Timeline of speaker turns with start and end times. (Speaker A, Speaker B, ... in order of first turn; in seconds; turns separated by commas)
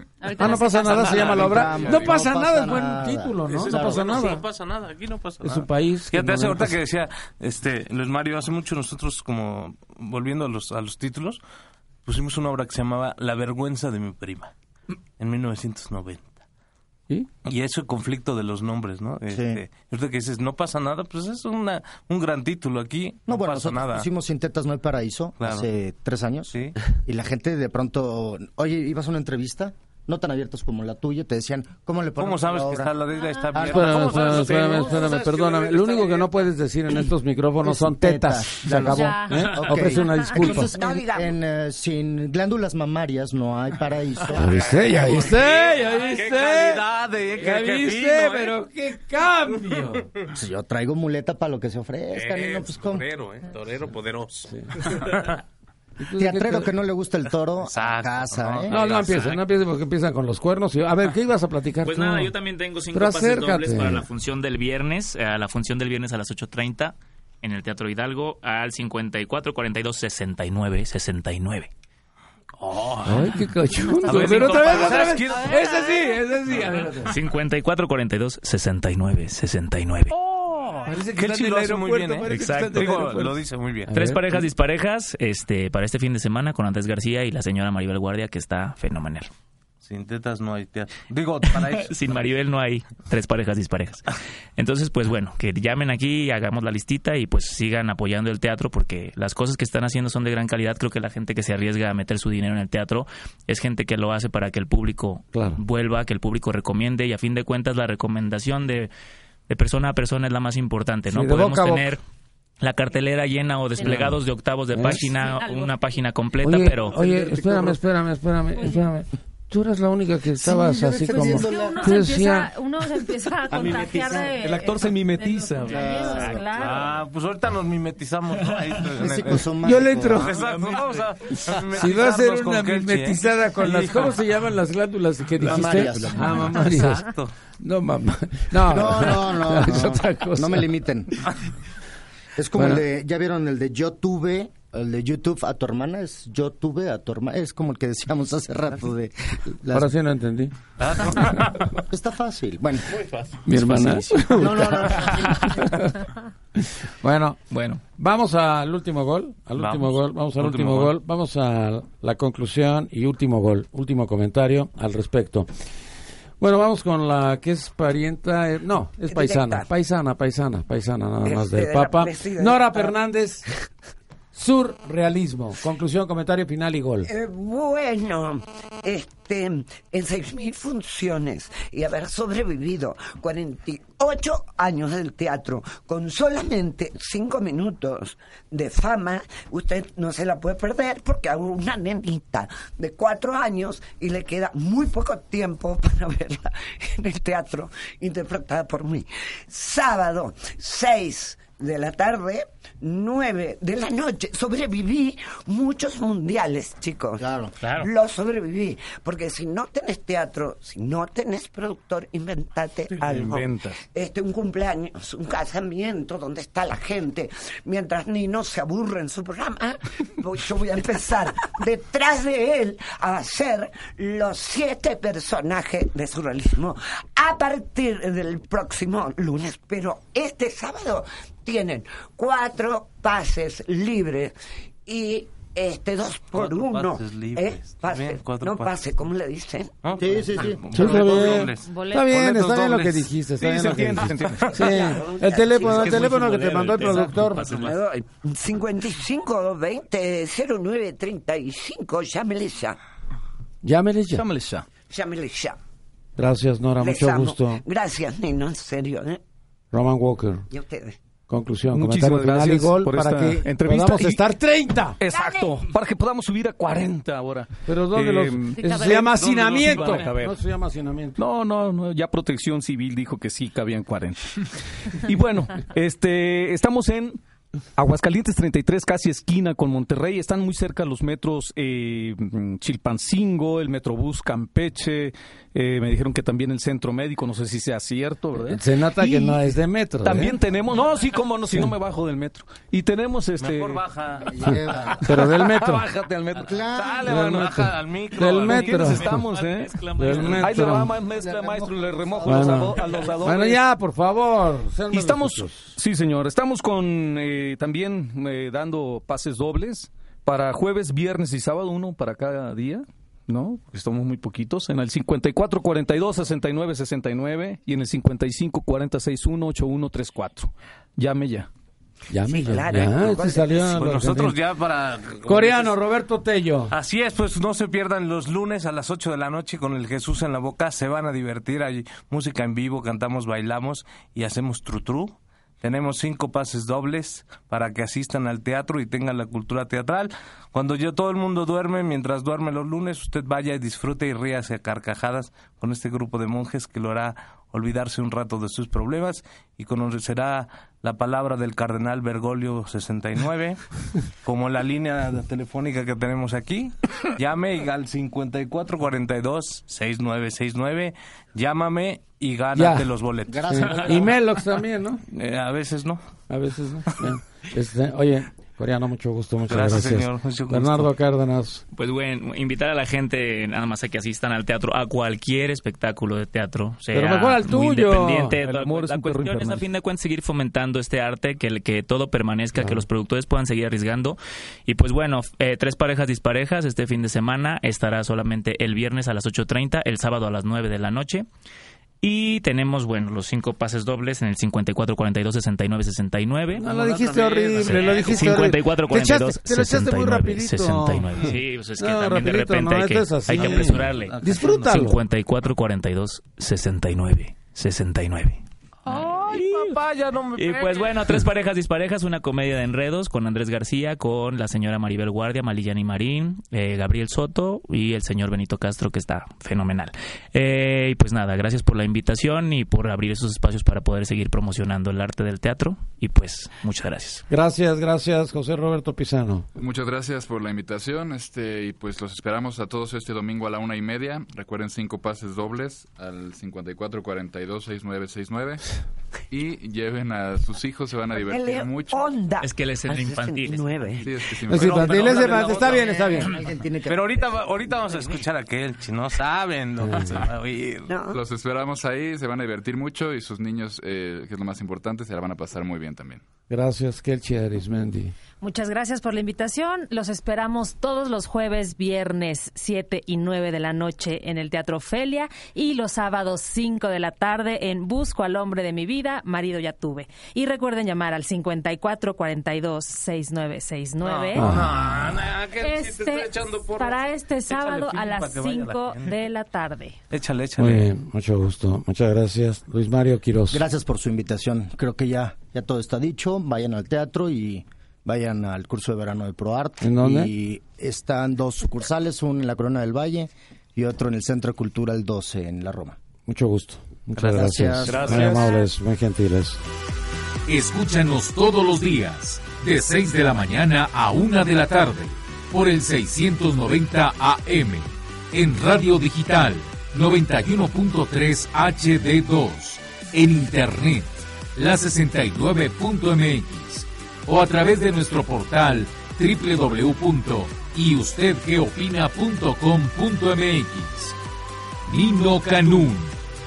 Speaker A: 0.2-1.5, Speaker B: 0.4-4.5, Speaker C: 0.8-4.2, Speaker D: 1.1-2.2, Speaker E: 1.6-2.0, Speaker E: 3.5-11.4, Speaker B: 5.4-6.8, Speaker E: 12.1-14.5, Speaker E: 15.2-16.4, Speaker E: 17.4-24.1, Speaker C: 19.3-19.6, Speaker C: 23.3-33.0, Speaker E: 25.4-25.7, Speaker E: 32.2-36.5, Speaker C: 33.5-33.9, Speaker B: 33.6-40.7, Speaker C: 37.6-44.6, Speaker A: 38.8-40.6, Speaker F: 40.6-41.3, Speaker B: 44.3-46.8, Speaker E: 44.7-48.6, Speaker B: 47.4-50.1, Speaker E: 49.5-49.9, Speaker C: 50.3-53.0, Speaker E: 52.1-55.4, Speaker B: 54.5-54.9, Speaker B: 56.0-56.7, Speaker C: 56.2-58.9, Speaker E: 57.6-59.2, Speaker B: 58.7-62.3, Speaker G: 58.9-59.4, Speaker G: 61.8-71.7, Speaker B: 62.9-64.1, Speaker E: 72.6-73.4, Speaker B: 73.0-77.2, Speaker A: 74.0-74.7, Speaker E: 74.0-75.8, Speaker A: 75.3-76.3, Speaker G: 77.0-80.1, Speaker B: 80.9-83.2, Speaker H: 80.9-83.3, Speaker E: 81.1-83.9, Speaker G: 82.3-83.0, Speaker B: 83.9-84.5, Speaker G: 83.9-89.3, Speaker E: 89.8-91.9, Speaker G: 91.6-94.0, Speaker G: 94.6-108.9, Speaker B: 105.3-105.6, Speaker G: 109.5-112.0, Speaker B: 111.1-111.9, Speaker G: 112.6-117.0, Speaker A: 113.8-114.1, Speaker B: 113.9-114.2, Speaker B: 114.8-115.1, Speaker A: 115.2-115.7, Speaker B: 116.4-122.5, Speaker A: 118.5-118.8, Speaker C: 120.4-122.0, Speaker A: 121.1-127.0, Speaker C: 123.5-124.5, Speaker H: 124.4-125.8, Speaker C: 125.7-126.5, Speaker E: 126.3-134.2, Speaker C: 128.9-130.4, Speaker B: 129.6-130.4, Speaker G: 130.4-130.9, Speaker B: 131.7-137.1, Speaker C: 135.4-136.5, Speaker E: 135.5-137.3, Speaker B: 137.6-140.7, Speaker C: 138.6-141.3, Speaker C: 142.4-149.9, Speaker B: 142.6-142.8, Speaker B: 149.7-150.5, Speaker E: 150.8-151.7, Speaker C: 151.9-155.7, Speaker E: 153.0-153.3, Speaker B: 153.4-155.9, Speaker B: 156.6-165.5, Speaker G: 157.5-157.8, Speaker E: 159.6-160.9, Speaker B: 166.4-173.5, Speaker F: 169.1-169.7, Speaker F: 171.2-173.0, Speaker B: 174.3-177.1, Speaker F: 177.1-234.3, Speaker C: 207.2-207.6, Speaker H: 207.6-207.9, Speaker H: 212.9-213.8, Speaker F: 234.9-239.7, Speaker E: 236.3-238.8, Speaker E: 239.8-244.7, Speaker C: 240.0-240.7, Speaker B: 240.7-247.5, Speaker A: 241.6-242.2, Speaker H: 243.4-244.4, Speaker F: 244.5-252.8, Speaker G: 246.4-247.8, Speaker B: 253.6-254.3, Speaker H: 254.1-254.7, Speaker F: 254.9-255.6, Speaker B: 256.2-257.6, Speaker F: 256.8-259.2, Speaker B: 259.7-260.5, Speaker F: 260.5-261.0, Speaker B: 261.3-265.0, Speaker H: 261.7-264.2, Speaker H: 265.0-270.4, Speaker F: 265.1-265.6, Speaker B: 267.7-271.2, Speaker A: 268.6-269.2, Speaker E: 269.2-269.9, Speaker H: 271.2-274.4, Speaker H: 275.0-277.2, Speaker H: 277.8-288.7, Speaker B: 288.4-290.4, Speaker H: 290.0-293.8, Speaker E: 293.4-300.9, Speaker C: 294.2-295.1, Speaker B: 295.1-295.9, Speaker C: 296.3-297.2, Speaker B: 297.1-299.2, Speaker H: 298.5-303.6, Speaker B: 299.9-301.0, Speaker C: 301.1-303.1, Speaker B: 302.2-305.8, Speaker E: 302.7-303.2, Speaker H: 304.9-321.5, Speaker B: 322.1-324.4, Speaker F: 322.2-324.0, Speaker E: 323.6-325.8, Speaker B: 325.2-326.7, Speaker E: 326.7-364.1, Speaker B: 362.6-362.9, Speaker C: 363.3-364.2, Speaker B: 363.5-365.0, Speaker E: 365.1-366.0, Speaker B: 366.3-371.6, Speaker E: 369.5-370.9, Speaker G: 371.7-391.3, Speaker B: 376.9-378.4, Speaker H: 378.4-379.6, Speaker B: 382.6-382.9, Speaker G: 392.0-396.7, Speaker B: 396.6-405.0, Speaker E: 396.6-398.4, Speaker G: 397.6-409.8, Speaker E: 403.3-404.7, Speaker E: 408.9-411.2, Speaker G: 410.4-427.2, Speaker B: 427.3-429.5, Speaker D: 429.6-438.7, Speaker D: 439.3-442.1, Speaker F: 441.1-444.4, Speaker G: 442.4-443.7, Speaker D: 444.0-445.7, Speaker B: 444.5-446.4, Speaker E: 444.5-450.9, Speaker C: 445.8-447.3, Speaker B: 449.9-450.2, Speaker F: 450.9-451.2, Speaker D: 451.1-456.2, Speaker B: 456.5-458.1, Speaker A: 458.4-474.6, Speaker E: 474.0-479.2, Speaker B: 474.4-474.9, Speaker A: 475.6-480.0, Speaker E: 480.1-480.9, Speaker B: 480.6-483.6, Speaker C: 483.5-496.0, Speaker B: 489.8-490.3, Speaker B: 496.3-499.6, Speaker C: 497.2-498.3, Speaker H: 497.9-498.6, Speaker E: 497.9-498.4, Speaker I: 500.5-524.2, Speaker I: 524.9-526.1